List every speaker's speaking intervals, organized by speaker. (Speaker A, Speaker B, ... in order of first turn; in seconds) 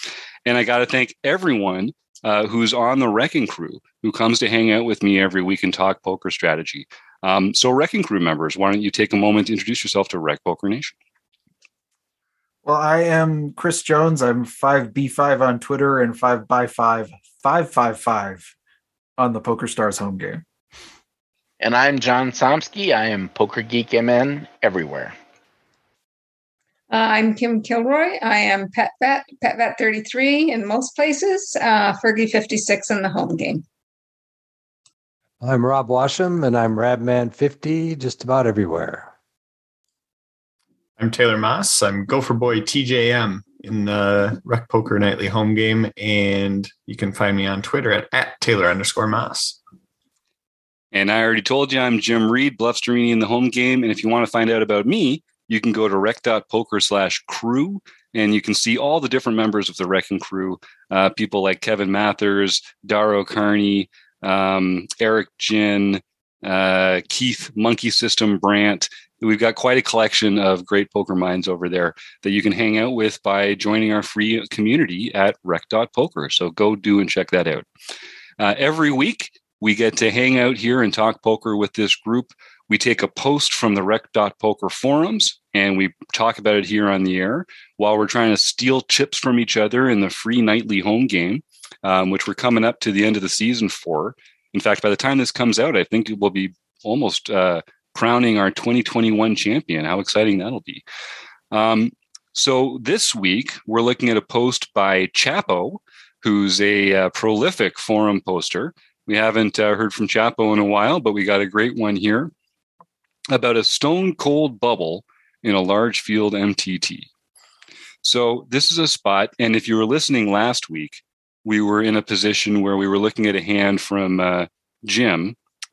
Speaker A: 0.5-10.9, 50.9-77.7, 78.4-100.8, 101.5-112.3, 113.3-117.1, 118.0-125.4
Speaker B: 12.7-18.5, 19.2-20.4
Speaker C: 21.6-25.1
Speaker D: 26.9-33.6
Speaker E: 35.4-39.1
Speaker F: 41.0-49.6